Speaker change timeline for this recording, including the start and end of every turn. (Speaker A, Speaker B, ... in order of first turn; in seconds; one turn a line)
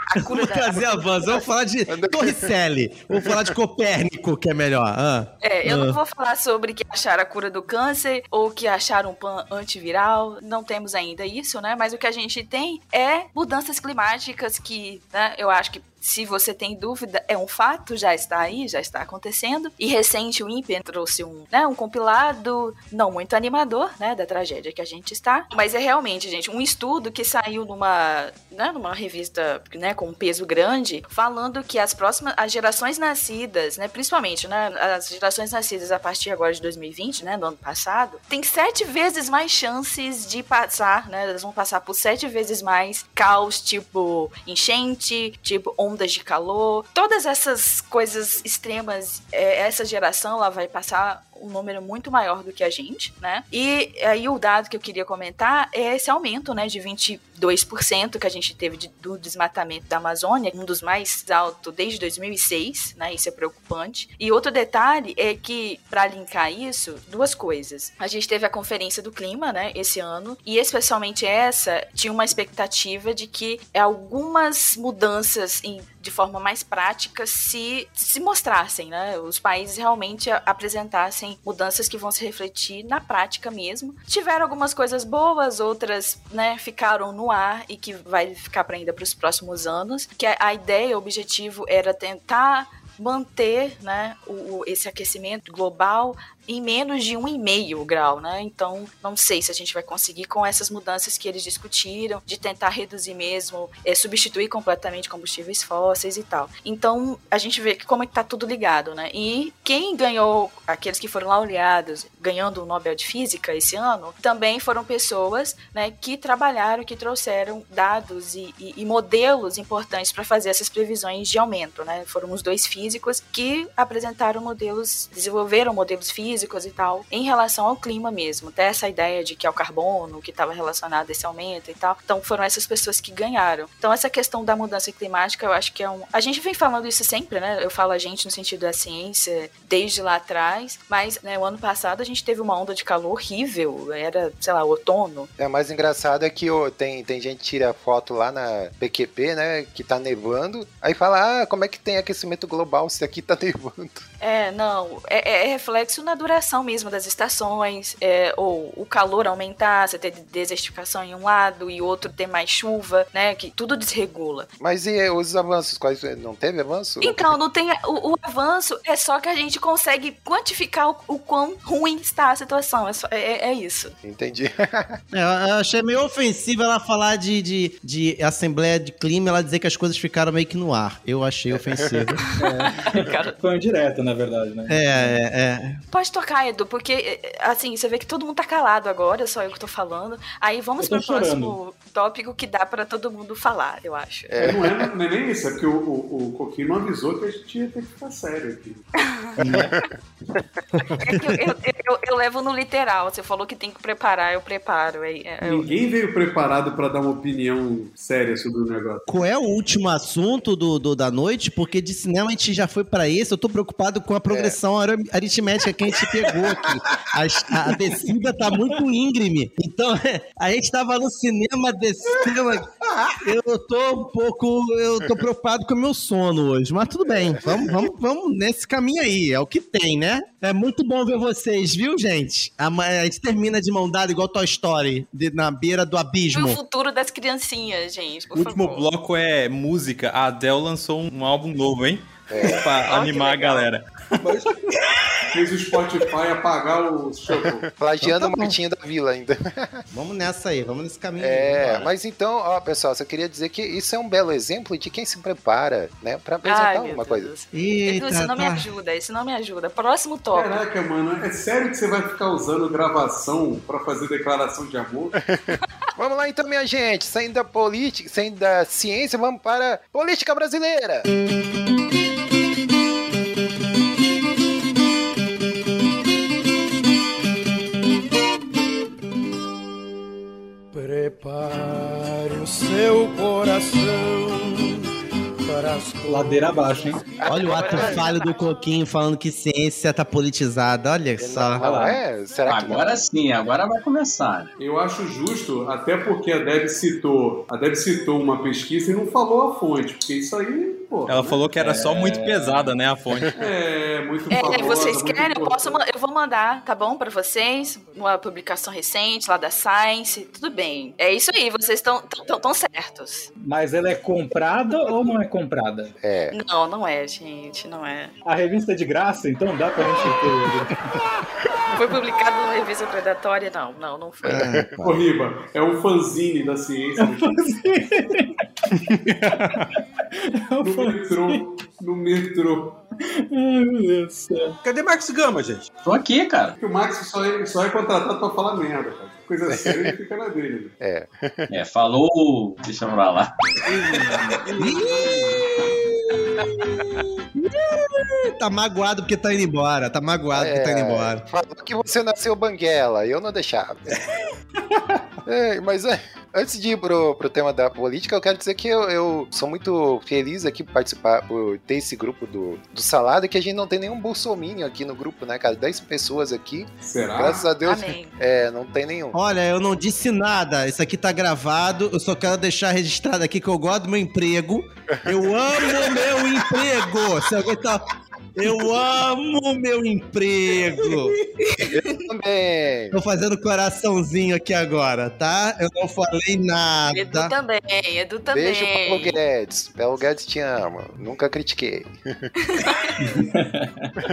Speaker A: 0.1-1.0
Speaker B: 0.2-6.0
Speaker C: 1.9-2.5
Speaker A: 5.4-145.3
Speaker C: 145.4-154.1
Speaker A: 154.2-164.5
Speaker C: 164.6-167.3
Speaker A: 167.0-173.9
Speaker C: 174.0-175.0
Speaker B: 175.1-182.2
Speaker C: 181.5-182.1
Speaker A: 182.3-183.3
Speaker D: 182.4-185.2
Speaker B: 184.7-185.8
Speaker A: 185.9-194.4
Speaker D: 190.8-191.6
Speaker C: 194.3-194.9
Speaker E: 194.4-198.8
Speaker A: 199.0-199.5
Speaker B: 199.4-199.7
Speaker D: 199.4-199.7
Speaker A: 201.0-205.7
Speaker E: 205.4-209.0
Speaker B: 209.1-236.6
Speaker C: 214.3-214.6
Speaker A: 236.3-238.9
Speaker F: 238.3-243.8
Speaker C: 242.3-242.7
Speaker A: 242.6-243.7
Speaker G: 244.2-244.5
Speaker E: 245.3-247.7
Speaker C: 247.3-249.9
Speaker B: 248.0-248.6
Speaker B: 249.9-251.9
Speaker C: 251.2-257.3
Speaker A: 256.4-260.6
Speaker B: 257.5-258.6
Speaker E: 260.3-265.1
Speaker C: 265.3-271.1
Speaker H: 280.7-284.9
Speaker H: 285.5-287.0
Speaker D: 286.1-287.1
Speaker A: 287.2-288.3
Speaker B: 287.3-291.6
Speaker C: 291.2-293.1
Speaker D: 291.6-292.0
Speaker I: 292.5-294.5
Speaker E: 294.6-301.4
Speaker F: 301.1-303.4
Speaker D: 301.6-302.8
Speaker E: 303.4-305.8
Speaker A: 304.3-313.3
Speaker D: 313.4-315.9
Speaker C: 316.0-316.4
Speaker A: 316.3-318.1
Speaker D: 318.2-320.9
Speaker A: 321.7-324.5
Speaker C: 324.2-324.8
Speaker B: 324.2-325.0
Speaker E: 324.8-327.2
Speaker D: 327.0-331.4
Speaker E: 330.6-332.8
Speaker D: 333.2-334.6
Speaker G: 334.6-335.7
Speaker I: 335.8-336.6
Speaker E: 336.6-340.8
Speaker C: 339.5-339.9
Speaker C: 340.8-341.5
Speaker I: 341.5-343.3
Speaker G: 343.7-345.4
Speaker B: 344.6-351.2
Speaker C: 350.3-354.0
Speaker C: 355.3-369.1
Speaker E: 366.8-367.5
Speaker A: 367.6-368.1
Speaker B: 369.1-381.2
Speaker A: 381.4-381.7
Speaker C: 381.7-383.0
Speaker B: 382.9-387.3
Speaker A: 386.9-389.2
Speaker C: 388.3-392.3
Speaker A: 392.4-392.9
Speaker D: 393.0-393.9